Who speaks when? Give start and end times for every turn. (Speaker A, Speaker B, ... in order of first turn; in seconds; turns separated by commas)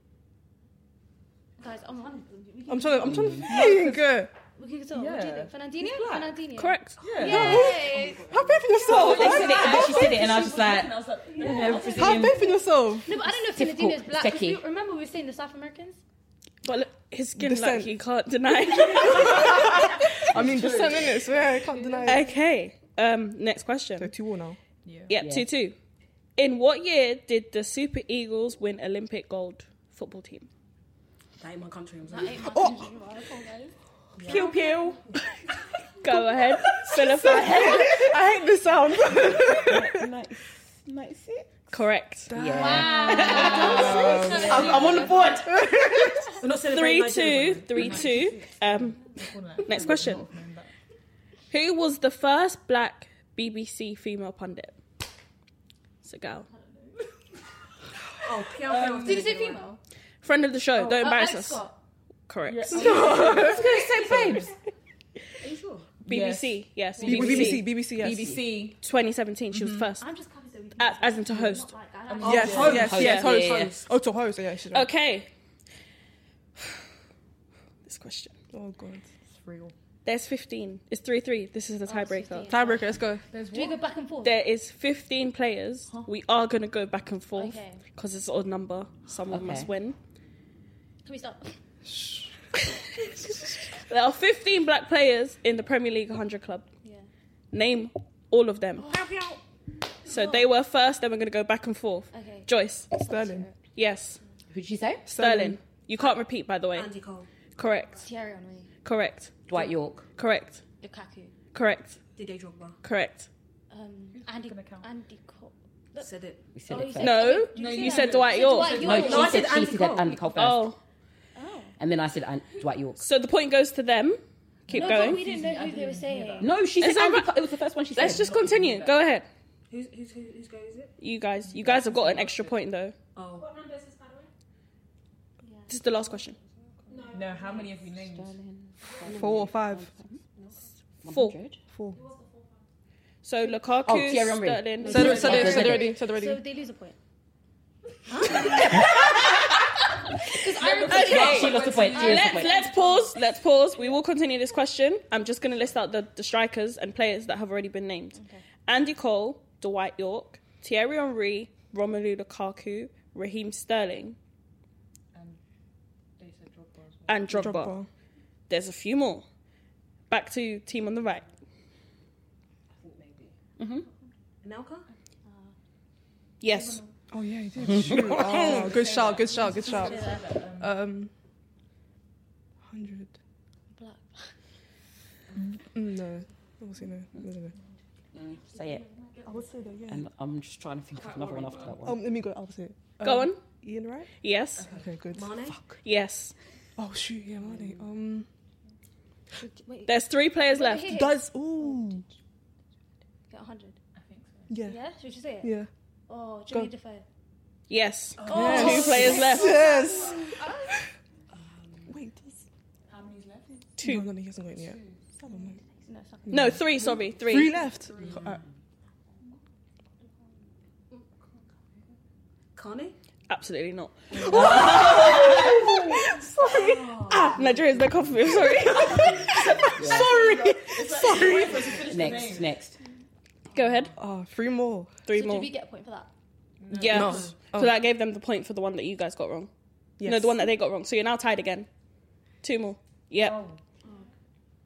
Speaker A: 1.6-3.8, Speaker B: 2.7-4.3, Speaker C: 3.0-3.5, Speaker D: 3.4-4.1, Speaker A: 4.5-8.4, Speaker D: 4.9-6.4, Speaker E: 6.5-7.0, Speaker D: 7.0-7.7, Speaker F: 7.2-8.8, Speaker B: 7.2-9.9, Speaker C: 8.8-12.4, Speaker D: 8.8-12.6, Speaker A: 11.4-12.3, Speaker B: 11.6-13.1, Speaker A: 13.1-16.0, Speaker C: 13.4-14.6, Speaker E: 16.6-19.6, Speaker B: 17.4-17.9, Speaker B: 19.0-22.3, Speaker D: 19.1-21.4, Speaker A: 21.0-22.3, Speaker E: 22.1-24.1, Speaker B: 24.0-24.6, Speaker D: 24.8-25.1, Speaker C: 25.1-25.5, Speaker E: 25.1-25.7, Speaker E: 26.4-30.5, Speaker F: 31.4-32.5, Speaker A: 32.1-33.7, Speaker B: 32.5-32.9, Speaker D: 34.2-34.9, Speaker C: 34.2-35.0, Speaker E: 36.0-38.0, Speaker B: 36.1-40.0, Speaker C: 37.3-38.1, Speaker C: 39.3-41.8, Speaker E: 41.7-42.3, Speaker B: 42.3-44.8, Speaker C: 42.3-45.5, Speaker A: 42.5-45.4, Speaker D: 42.8-45.4, Speaker B: 45.4-46.2, Speaker F: 46.4-48.1, Speaker E: 46.7-49.0, Speaker D: 47.7-50.7, Speaker E: 49.6-50.2, Speaker E: 51.5-54.7, Speaker E: 56.0-56.5, Speaker D: 56.5-57.0, Speaker F: 58.2-59.6, Speaker D: 58.6-59.3, Speaker A: 59.0-59.8, Speaker E: 60.2-61.6, Speaker A: 60.9-61.8, Speaker E: 62.3-63.1, Speaker D: 62.5-64.3, Speaker B: 62.7-64.5, Speaker A: 62.7-64.4, Speaker C: 63.6-64.5, Speaker F: 65.4-65.9, Speaker D: 66.0-68.8, Speaker E: 66.1-67.7, Speaker B: 67.0-68.4, Speaker C: 68.2-68.4, Speaker E: 68.8-70.0, Speaker A: 70.0-72.9, Speaker E: 70.8-71.7, Speaker D: 72.1-73.2, Speaker B: 72.2-74.9, Speaker F: 72.3-73.9, Speaker C: 72.7-73.8, Speaker E: 72.9-73.4, Speaker E: 74.7-75.3, Speaker E: 77.8-78.3, Speaker B: 78.5-79.0, Speaker D: 79.3-79.7, Speaker E: 80.0-82.5, Speaker A: 81.8-82.8, Speaker B: 82.5-83.2, Speaker D: 83.3-83.8, Speaker A: 83.5-84.4, Speaker E: 84.2-90.0, Speaker A: 87.3-87.8, Speaker C: 89.3-89.7, Speaker A: 91.0-91.6, Speaker B: 91.9-92.3, Speaker E: 93.8-96.7, Speaker A: 96.8-97.1, Speaker E: 97.5-99.0, Speaker F: 98.9-99.4, Speaker E: 100.0-102.9, Speaker A: 100.1-100.4, Speaker A: 102.1-103.5, Speaker B: 103.0-103.5, Speaker E: 103.8-104.2, Speaker C: 104.5-105.1, Speaker B: 105.1-105.6, Speaker E: 105.1-106.9, Speaker F: 106.7-107.3, Speaker E: 107.6-108.0, Speaker A: 108.0-108.7, Speaker E: 108.8-109.5, Speaker C: 109.5-110.1, Speaker E: 110.2-110.6, Speaker A: 110.8-111.3, Speaker E: 111.5-112.0, Speaker F: 112.1-112.8, Speaker E: 112.8-113.3, Speaker A: 113.7-119.5, Speaker D: 114.1-114.9, Speaker F: 116.0-116.4, Speaker C: 116.5-117.4, Speaker E: 117.0-119.0, Speaker D: 117.5-119.7, Speaker C: 118.8-120.7, Speaker F: 118.9-120.2, Speaker E: 120.3-120.8, Speaker A: 121.3-121.8, Speaker C: 121.8-123.1, Speaker E: 123.0-125.2, Speaker D: 124.7-126.7, Speaker A: 124.7-126.5, Speaker C: 126.4-128.7, Speaker E: 126.8-129.2, Speaker D: 128.0-128.9, Speaker F: 129.7-130.9, Speaker E: 131.0-132.9, Speaker D: 131.4-132.6, Speaker F: 133.2-133.5, Speaker A: 135.4-135.8, Speaker E: 135.7-136.4, Speaker D: 135.9-138.4, Speaker F: 136.9-137.8, Speaker C: 137.9-140.2, Speaker F: 139.0-139.5, Speaker B: 139.1-139.9, Speaker F: 140.3-140.7, Speaker C: 141.0-141.6, Speaker E: 141.1-141.4, Speaker B: 141.7-142.0, Speaker A: 141.9-142.5, Speaker E: 143.2-145.7, Speaker C: 143.8-145.9, Speaker F: 144.8-145.8, Speaker B: 144.9-146.4, Speaker A: 145.2-147.0, Speaker F: 148.1-149.0, Speaker A: 148.2-148.9, Speaker C: 148.5-149.6, Speaker A: 150.3-153.1, Speaker D: 150.6-152.2, Speaker E: 150.9-164.2, Speaker C: 150.9-152.6, Speaker A: 158.2-158.4, Speaker D: 165.1-165.4, Speaker D: 166.2-167.7, Speaker E: 167.1-167.8, Speaker B: 167.4-167.9, Speaker E: 168.5-169.2, Speaker E: 170.1-171.2, Speaker F: 172.8-173.3, Speaker C: 173.6-173.8, Speaker F: 174.4-174.9, Speaker A: 175.2-175.6, Speaker E: 176.4-176.8, Speaker D: 176.5-176.8, Speaker B: 177.1-180.0, Speaker D: 177.5-180.8, Speaker C: 177.7-178.5, Speaker A: 179.6-180.3, Speaker B: 180.6-181.1, Speaker B: 182.7-183.1, Speaker A: 183.7-184.3, Speaker D: 185.3-185.6, Speaker B: 185.6-187.6, Speaker C: 188.1-188.8, Speaker B: 189.2-190.1, Speaker C: 189.9-192.0, Speaker F: 191.1-191.7, Speaker D: 191.1-191.8, Speaker B: 191.8-194.1, Speaker E: 193.0-193.4, Speaker E: 194.2-194.6, Speaker D: 194.6-194.9, Speaker B: 194.8-195.4, Speaker F: 195.1-195.6, Speaker E: 195.8-196.3, Speaker B: 196.8-198.2, Speaker A: 199.4-201.2, Speaker E: 199.8-201.1, Speaker B: 200.9-202.0, Speaker A: 203.3-203.8, Speaker D: 203.9-204.6, Speaker B: 204.5-204.8, Speaker A: 204.6-205.6, Speaker B: 205.4-205.7, Speaker A: 206.1-207.1, Speaker E: 207.7-209.6, Speaker D: 208.2-209.9, Speaker A: 208.2-210.7, Speaker B: 208.3-210.9, Speaker F: 211.4-211.9, Speaker B: 211.9-212.3, Speaker D: 212.9-213.8, Speaker E: 213.8-214.1, Speaker B: 213.8-215.6, Speaker D: 214.5-215.2, Speaker A: 215.2-216.6, Speaker B: 216.3-218.4, Speaker E: 216.3-217.6, Speaker D: 216.9-218.4, Speaker F: 222.6-222.9, Speaker E: 223.3-229.4, Speaker C: 224.3-225.4, Speaker D: 224.3-225.4, Speaker F: 224.5-225.1, Speaker F: 226.4-232.4, Speaker D: 227.6-232.6, Speaker B: 229.5-231.8, Speaker C: 229.8-230.1, Speaker C: 231.8-232.8, Speaker E: 233.5-233.9, Speaker D: 233.6-233.9, Speaker B: 233.9-234.9, Speaker E: 235.1-235.5, Speaker A: 235.1-236.1, Speaker D: 236.6-237.3, Speaker E: 236.7-239.5, Speaker B: 236.9-237.7, Speaker F: 236.9-237.3, Speaker B: 240.0-240.5, Speaker E: 240.0-241.7, Speaker E: 242.4-243.4, Speaker D: 243.2-243.6, Speaker A: 243.8-244.1